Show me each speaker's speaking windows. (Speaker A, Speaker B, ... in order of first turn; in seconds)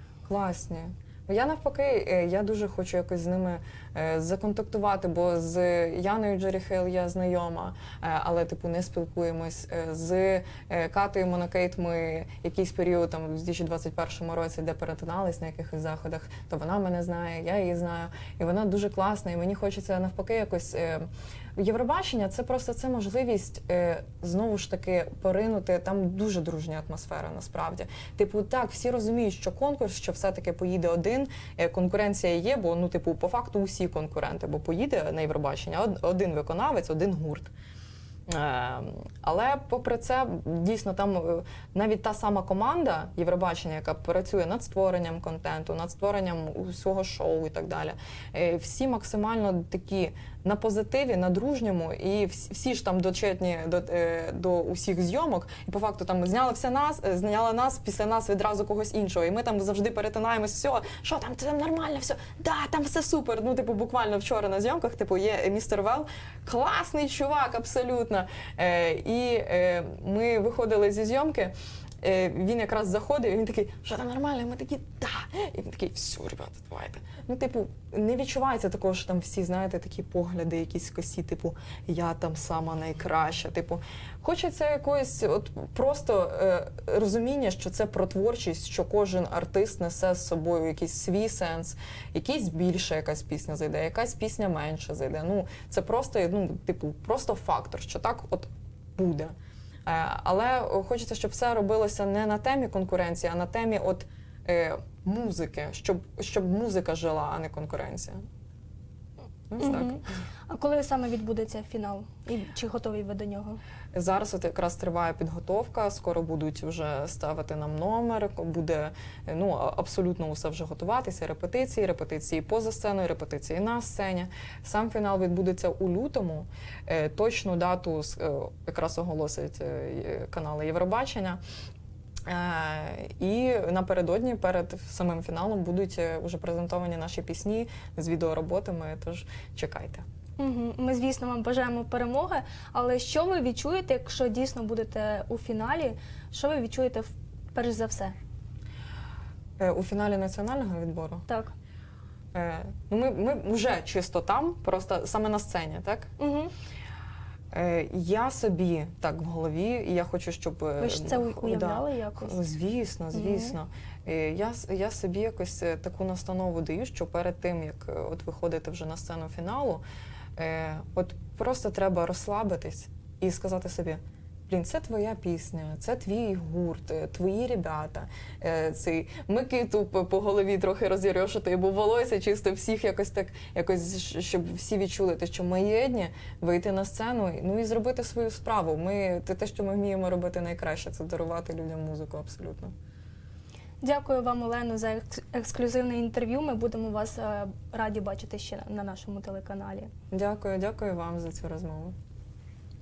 Speaker A: 0.3-37.5, 38.3-99.3, 99.9-108.2, 109.5-110.0, 113.9-131.4, 132.3-140.0, 149.6-151.3, 152.3-156.1, 157.5-169.8, 170.4-192.7, 200.1-201.9
Speaker B: 109.6-113.6, 140.4-148.2, 151.3-151.5, 156.2-156.5, 160.8-162.4, 163.1-163.6, 193.8-199.9